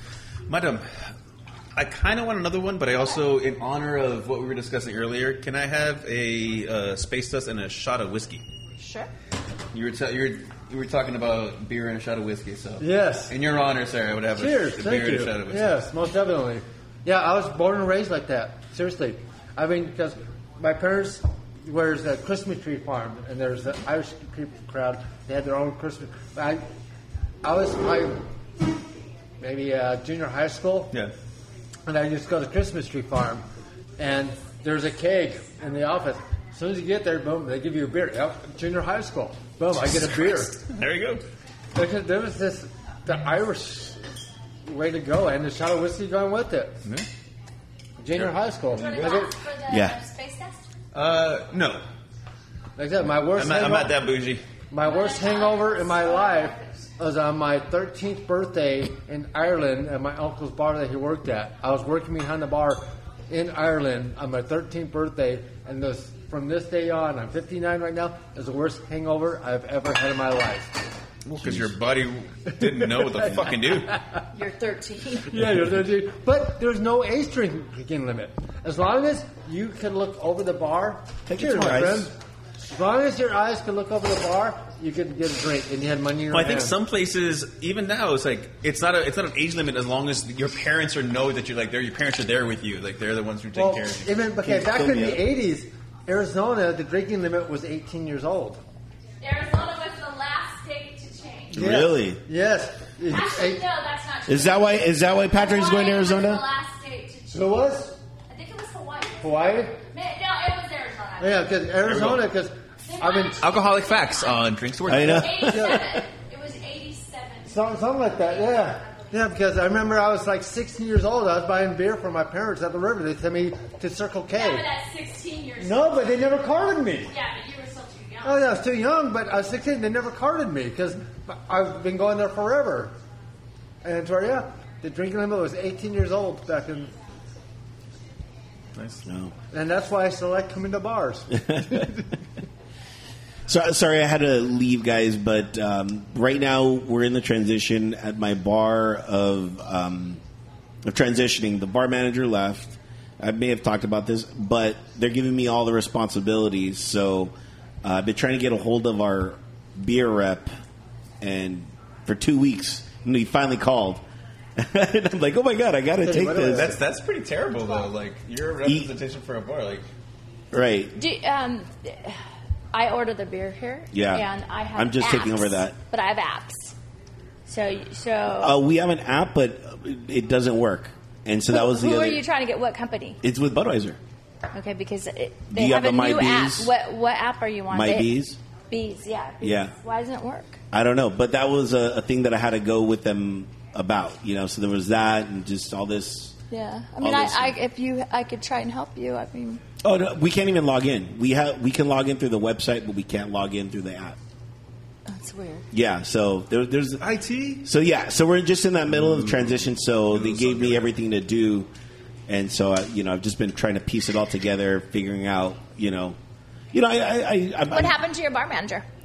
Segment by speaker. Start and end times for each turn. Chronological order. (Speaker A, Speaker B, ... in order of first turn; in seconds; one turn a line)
Speaker A: 0.5-0.9
Speaker A: 1.7-8.4
Speaker B: 8.8-9.1
Speaker A: 9.7-15.8
Speaker C: 12.8-13.3
Speaker C: 14.3-26.6
Speaker C: 27.4-28.2
Speaker C: 29.4-30.9
Speaker C: 31.9-33.4
Speaker C: 34.0-40.6
Speaker A: 40.7-41.2
Speaker C: 41.7-44.0
Speaker C: 44.6-46.8
Speaker C: 48.0-49.3
Speaker A: 48.1-49.2
Speaker B: 48.7-50.6
Speaker D: 49.7-50.0
Speaker A: 50.9-51.8
Speaker C: 52.8-53.9
Speaker A: 53.3-54.4
Speaker C: 54.7-70.7
Speaker B: 54.8-56.9
Speaker A: 71.2-74.0
Speaker B: 74.3-75.4
Speaker C: 75.3-86.7
Speaker D: 81.3-82.1
Speaker A: 86.3-94.2
Speaker C: 93.5-98.6
Speaker D: 94.4-95.2
Speaker B: 99.2-101.6
Speaker D: 101.5-102.2
Speaker C: 101.5-103.6
Speaker B: 103.1-107.5
Speaker D: 104.3-106.4
Speaker C: 107.3-108.0
Speaker B: 108.3-111.6
Speaker C: 109.2-109.8
Speaker C: 111.2-113.4
Speaker A: 111.8-112.2
Speaker B: 112.9-114.4
Speaker A: 113.4-115.4
Speaker D: 114.8-115.8
Speaker B: 115.0-117.6
Speaker C: 115.4-115.9
Speaker C: 117.5-124.7
Speaker B: 118.2-119.1
Speaker B: 124.3-126.0
Speaker C: 125.6-127.1
Speaker B: 127.1-128.5
Speaker C: 128.2-132.9
Speaker C: 133.8-136.9
Speaker A: 138.8-139.0
Speaker D: 139.1-139.3
Speaker C: 139.5-142.0
Speaker D: 141.5-141.8
Speaker D: 143.5-150.2
Speaker D: 150.8-160.5
Speaker D: 161.2-164.0
Speaker D: 164.6-166.8
Speaker C: 166.0-166.8
Speaker A: 166.5-169.8
Speaker D: 170.5-170.9
Speaker B: 170.9-172.2
Speaker B: 172.7-176.7
Speaker D: 173.9-175.8
Speaker B: 177.4-178.6
Speaker D: 178.4-182.2
Speaker B: 181.5-183.2
Speaker D: 183.2-184.0
Speaker B: 184.5-188.2
Speaker D: 185.5-186.7
Speaker D: 187.7-188.4
Speaker B: 188.7-190.6
Speaker D: 189.4-189.7
Speaker D: 190.7-196.3
Speaker B: 196.5-199.6
Speaker D: 197.0-197.6
Speaker D: 199.8-204.2
Speaker B: 205.1-205.6
Speaker D: 205.7-207.0
Speaker A: 207.0-207.6
Speaker D: 207.6-211.7
Speaker A: 209.0-209.6
Speaker A: 210.1-210.9
Speaker D: 212.3-216.2
Speaker D: 216.7-218.0
Speaker B: 217.7-218.8